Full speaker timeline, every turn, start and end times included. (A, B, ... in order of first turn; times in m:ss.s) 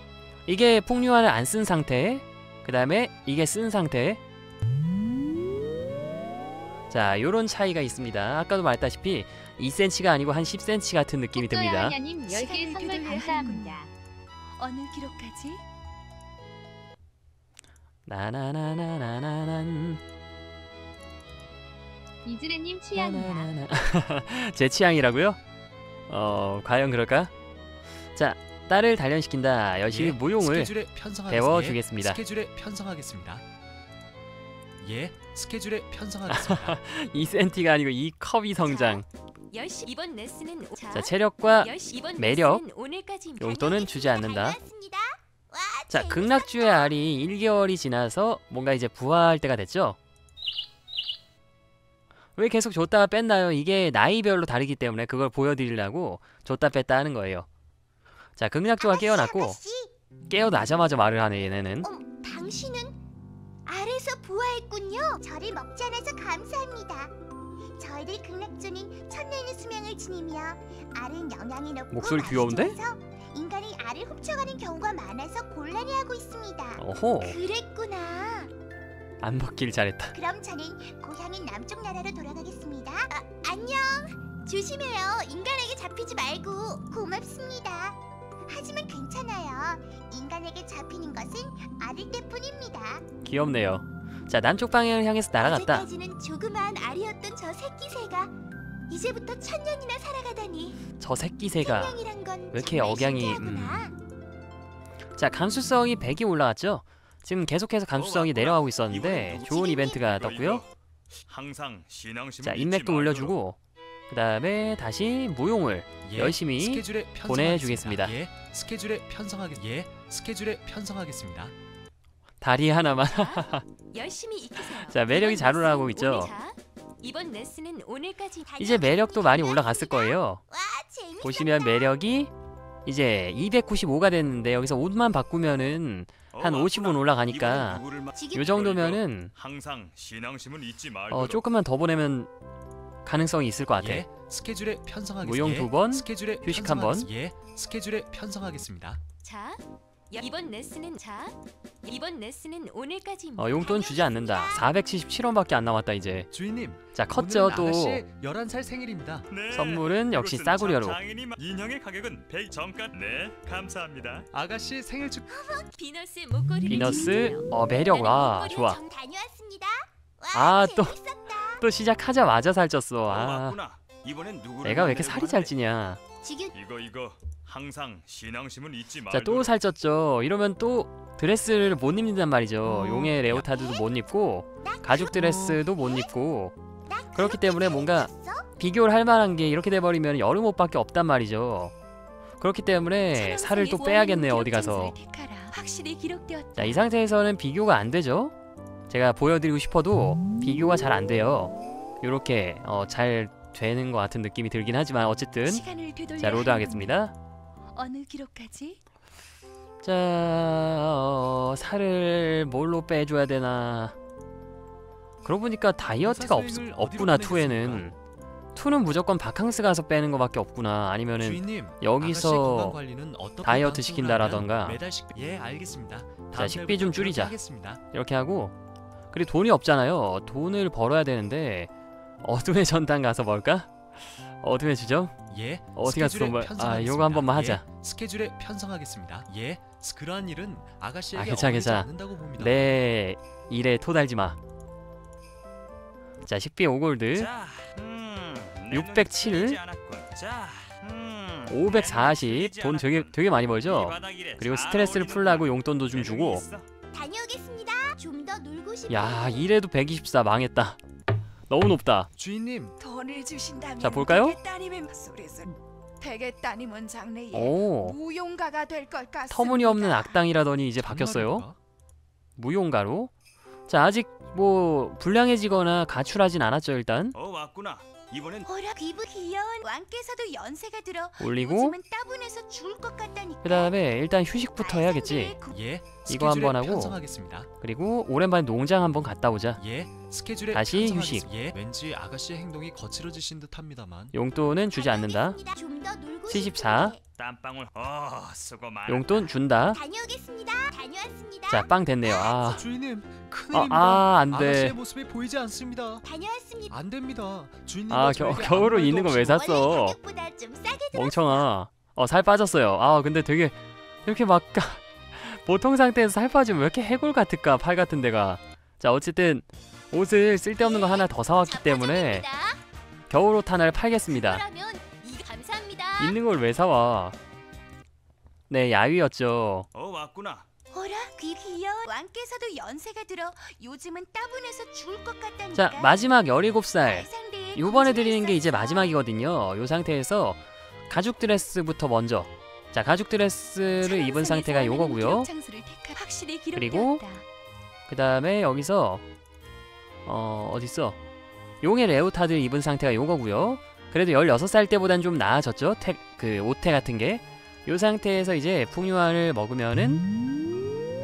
0:00.5-0:04.2 A
0:06.9-0:12.0 A
0:11.4-0:13.9 B
0:12.3-0:13.9 C
0:14.6-0:15.6 C
0:18.1-0:20.0 A
0:22.2-0:23.5 B
0:22.9-0:25.4 A
0:26.1-0:27.3 A
0:28.2-0:30.7 A
0:29.9-0:33.4 D
0:31.3-0:32.2 A
0:34.8-0:36.8 D
0:36.3-0:39.0 A
0:38.6-0:43.6 C
0:40.9-0:42.6 A
0:43.4-0:44.6 A
0:43.6-0:46.9 E
0:45.9-0:50.0 A
0:52.4-0:57.5 A
0:58.4-0:59.6 A
0:58.8-0:59.9 E
1:00.3-1:01.9 A
1:01.8-1:03.0 E
1:03.7-1:07.1 E
1:07.8-1:18.5 E
1:11.9-1:12.8 A
1:16.8-1:17.4 A
1:19.2-1:20.2 A
1:20.1-1:33.0 E
1:33.2-1:35.9 A
1:35.4-1:38.3 E
1:38.9-1:40.8 E
1:41.0-1:42.0 A
1:41.4-1:43.9 E
1:42.5-1:43.9 A
1:45.2-1:50.6 A
1:47.9-1:50.7 F
1:49.5-1:50.0 E
1:51.3-1:53.3 F
1:52.4-1:53.6 A
1:54.1-1:58.1 A
1:56.0-2:01.5 D
2:02.4-2:03.6 A
2:03.1-2:08.5 C
2:04.9-2:06.3 A
2:08.4-2:11.9 E
2:08.6-2:10.4 A
2:11.2-2:12.3 A
2:12.9-2:17.8 A
2:16.3-2:21.4 F
2:18.2-2:18.5 E
2:18.3-2:19.3 A
2:21.1-2:22.3 A
2:23.0-2:24.0 A
2:23.8-2:29.0 D
2:25.2-2:27.1 A
2:29.2-2:34.6 C
2:33.4-2:36.3 A
2:36.3-2:39.3 D
2:36.9-2:38.0 A
2:39.3-2:44.3 F
2:39.5-2:41.0 A
2:44.3-2:45.3 D
2:45.3-2:45.7 E
2:45.8-2:48.8 C
2:46.7-2:48.8 A
2:48.5-2:51.6 E
2:50.3-2:51.0 A
2:51.6-2:53.6 A
2:53.1-2:55.5 F
2:54.6-2:56.0 A
2:56.2-2:56.5 E
2:56.5-2:59.5 F
2:59.1-3:06.5 A
3:02.6-3:03.3 D
3:03.3-3:03.9 E
3:04.6-3:06.1 E
3:05.1-3:05.6 D
3:06.9-3:08.5 E
3:07.1-3:11.7 A
3:12.4-3:14.9 A
3:13.2-3:16.8 C
3:16.6-3:18.3 A
3:18.9-3:25.6 A
3:25.5-3:27.0 C
3:26.2-3:27.1 A
3:27.8-3:28.8 C
3:29.8-3:34.0 A
3:35.2-3:38.0 A
3:36.0-3:37.9 D
3:38.6-3:42.8 A
3:41.2-3:47.8 D
3:43.4-3:44.8 A
3:46.4-3:47.4 A
3:47.9-3:48.5 A
3:49.1-3:51.7 A
3:52.2-3:53.9 A
3:54.4-3:55.2 A
3:55.3-4:02.8 D
3:55.8-3:57.6 A
4:01.2-4:04.4 A
4:06.3-4:07.3 A
4:07.2-4:16.7 F
4:08.7-4:09.6 A
4:11.5-4:16.4 A
4:16.9-4:19.5 E
4:18.9-4:20.8 A
4:21.5-4:22.1 A
4:22.2-4:22.8 D
4:22.8-4:30.2 G
4:23.8-4:24.4 A
4:27.3-4:28.0 A
4:29.3-4:31.5 A
4:30.8-4:31.6 D
4:32.4-4:33.1 A
4:33.7-4:37.2 A
4:37.1-4:38.5 F
4:38.6-4:39.6 E
4:39.7-4:41.7 C
4:41.2-4:41.8 A
4:41.4-4:43.7 E
4:43.4-4:45.3 A
4:44.6-4:45.4 E
4:45.2-4:45.5 C
4:45.5-4:47.5 D
4:46.1-4:47.0 A
4:47.6-4:49.6 A
4:49.6-4:54.1 D
4:50.5-4:51.2 A
4:54.1-4:55.4 A
4:54.8-4:57.0 E
4:56.3-4:57.0 A
4:57.2-4:59.3 F
4:58.9-4:59.8 A
4:59.7-5:02.3 E
5:01.5-5:02.6 A
5:02.2-5:06.0 D
5:03.5-5:04.8 A
5:06.0-5:06.7 E
5:06.7-5:09.5 D
5:07.9-5:10.0 A
5:09.3-5:11.5 E
5:10.9-5:22.2 A
5:20.6-5:22.6 C
5:23.1-5:24.4 A
5:24.1-5:26.2 C
5:26.0-5:27.2 A
5:28.5-5:29.7 A
5:29.7-5:30.5 F
5:30.7-5:31.1 C
5:31.2-5:31.9 E
5:31.9-5:35.8 C
5:35.5-5:45.3 A
5:37.0-5:38.3 C
5:37.1-5:39.0 E
5:43.8-5:47.2 C
5:46.6-5:47.0 A
5:47.9-5:49.0 A
5:50.1-5:51.0 A
5:51.6-6:00.0 A